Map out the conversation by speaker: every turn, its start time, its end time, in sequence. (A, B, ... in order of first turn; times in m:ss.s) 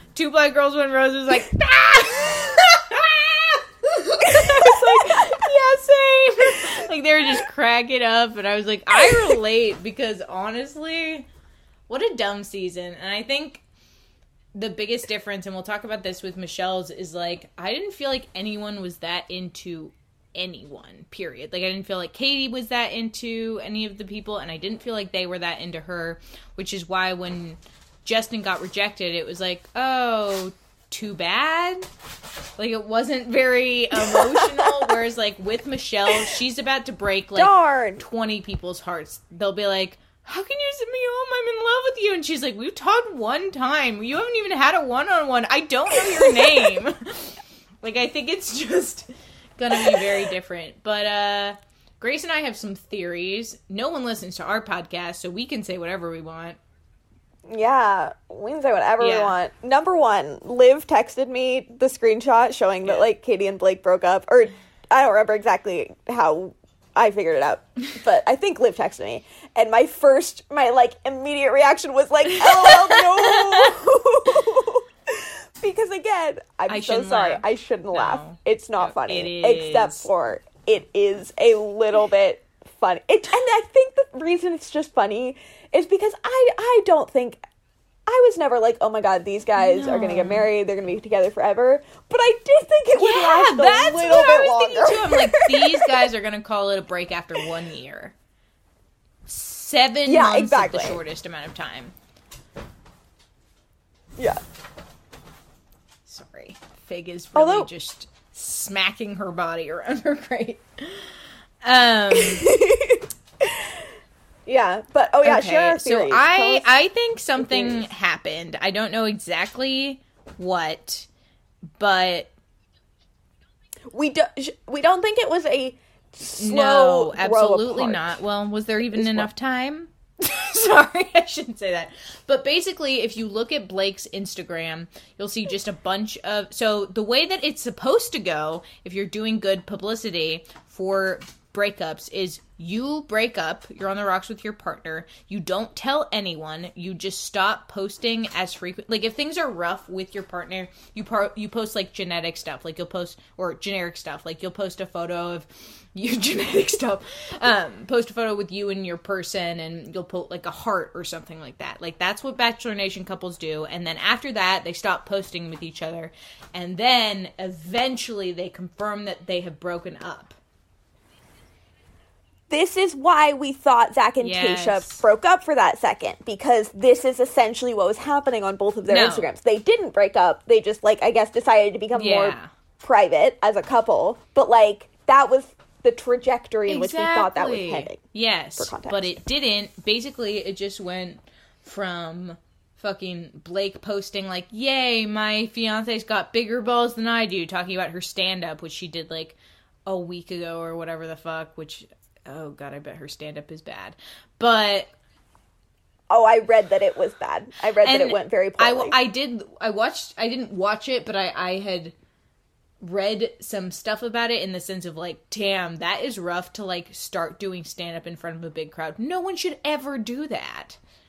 0:00.1-0:11.3 A
0:04.2-0:05.4 B
0:09.0-0:09.3 B
0:11.9-0:13.6 A
0:14.5-0:31.9 A
0:32.6-0:56.6 A
0:34.0-0:34.8 B
0:37.4-0:38.0 B
0:57.5-1:27.4 B
0:59.0-0:59.4 A
1:02.8-1:03.1 A
1:12.4-1:13.7 A
1:16.7-1:20.1 A
1:28.1-1:36.1 B
1:29.6-1:30.5 A
1:32.9-1:38.1 A
1:39.2-1:41.9 A
1:40.0-1:41.0 B
1:46.0-1:52.5 A
1:47.3-1:47.7 B
1:52.1-1:53.7 B
1:54.5-1:56.7 B
1:55.2-2:01.1 A
1:57.4-1:57.8 B
2:01.8-2:02.3 A
2:03.9-2:08.1 B
2:06.4-2:50.4 A
2:08.9-2:09.3 B
2:52.5-3:08.0 B
2:54.2-2:55.0 A
2:58.9-2:59.3 A
3:01.9-3:02.5 A
3:06.7-3:24.9 A
3:08.6-3:09.2 B
3:26.1-3:29.0 B
3:27.8-3:31.9 A
3:32.8-3:40.8 A